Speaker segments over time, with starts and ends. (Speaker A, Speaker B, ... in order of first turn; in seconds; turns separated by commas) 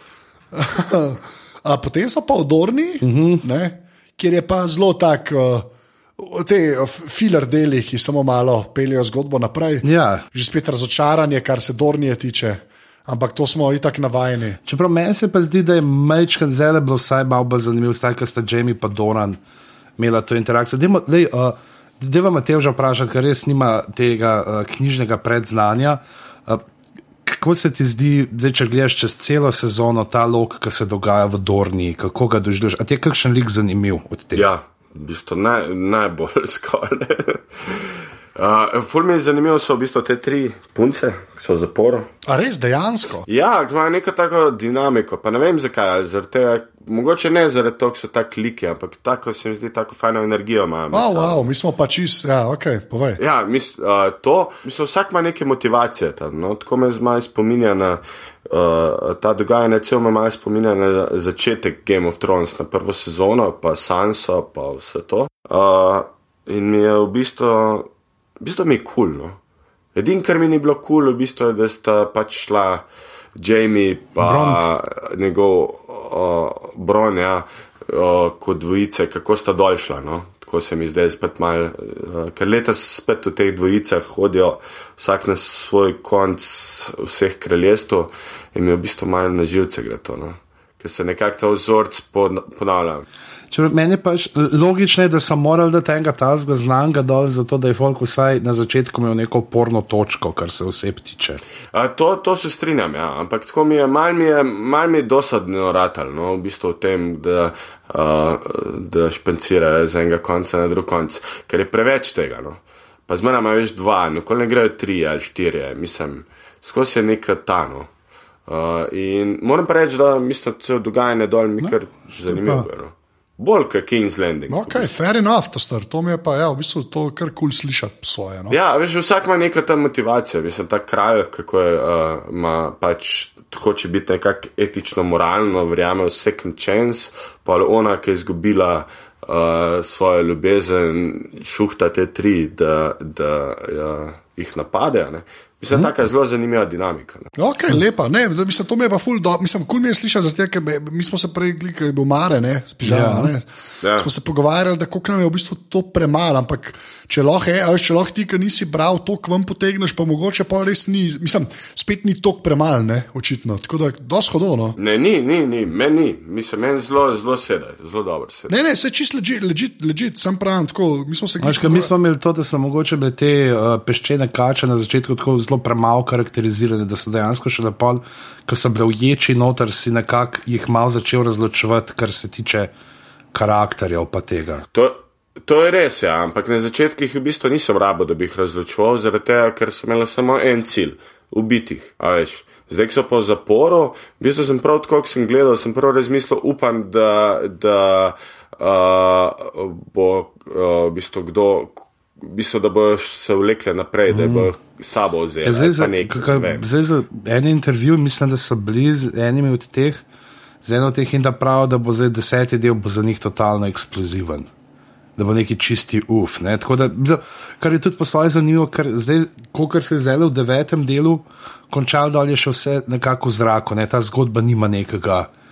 Speaker A: 0.5-14.6, Speaker B: 3.0-3.4, Speaker B: 9.8-10.3, Speaker B: 14.7-19.4, Speaker B: 20.0-26.6, Speaker B: 27.3-34.5, Speaker C: 34.4-42.1, Speaker A: 42.3-43.2, Speaker C: 43.3-51.4, Speaker A: 50.9-53.2, Speaker C: 53.2-69.4, Speaker C: 70.0-72.8, Speaker C: 73.4-93.0, Speaker B: 74.2-74.6, Speaker B: 93.5-101.4, Speaker C: 101.7-117.9, Speaker C: 118.5-124.9, Speaker B: 122.3-122.7, Speaker A: 124.5-128.6, Speaker C: 128.5-147.3, Speaker A: 147.4-164.8, Speaker B: 152.8-153.3, Speaker C: 153.8-154.1, Speaker C: 164.8-168.5, Speaker A: 168.5-171.9, Speaker B: 171.4-182.7, Speaker B: 183.3-184.7, Speaker C: 184.7-206.7, Speaker B: 204.1-204.5, Speaker B: 205.4-210.0, Speaker B: 210.6-214.5, Speaker B: 215.2-225.3